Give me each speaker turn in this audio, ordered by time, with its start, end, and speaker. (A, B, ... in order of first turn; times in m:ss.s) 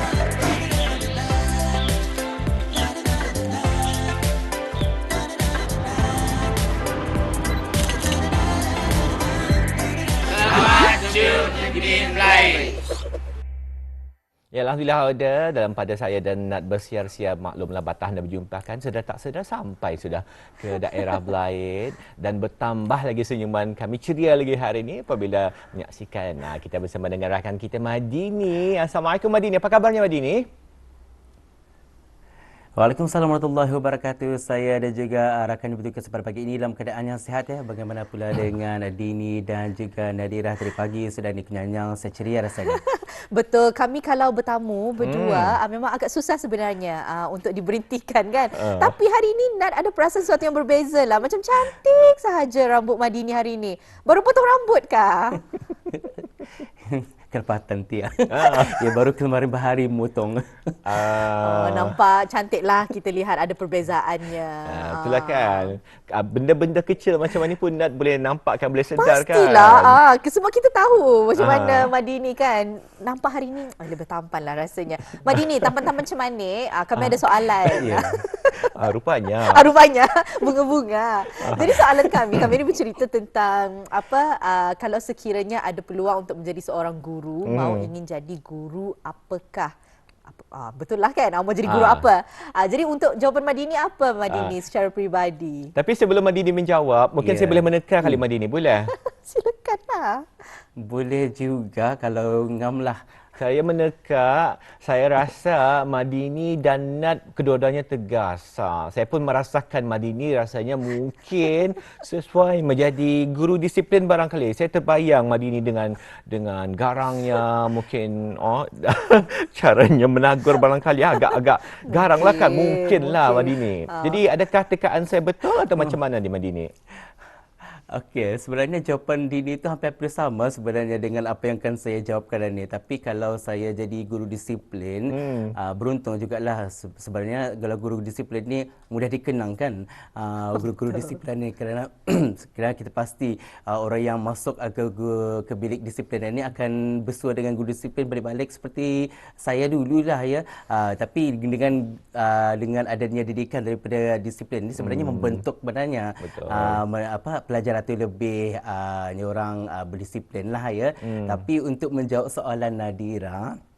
0:10.4-0:12.7 A
0:14.5-0:30.5 A
0:32.8-0:42.8 B
0:42.6-0:55.4 C
0:45.0-0:45.6 A
0:48.6-0:48.9 A
0:56.8-1:01.2 B
0:58.3-0:59.0 A
1:00.8-1:02.0 A
1:01.4-1:05.8 C
1:04.6-1:10.0 A
1:09.0-1:18.6 C
1:11.4-1:11.9 A
1:17.0-1:19.7 A
1:19.4-1:29.7 C
1:21.3-1:22.6 A
1:27.4-1:27.9 A
1:30.3-1:35.7 C
1:31.6-1:32.1 A
1:34.3-1:34.6 A
1:35.7-1:38.9 A
1:37.2-1:38.2 B
1:38.9-1:40.2 C
1:40.8-1:43.0 B
1:43.4-2:06.7 A
2:01.8-2:04.2 C
2:07.9-2:43.6 B
2:15.1-2:15.5 A
2:34.8-2:35.4 A
2:36.2-2:36.8 A
2:41.0-2:41.4 A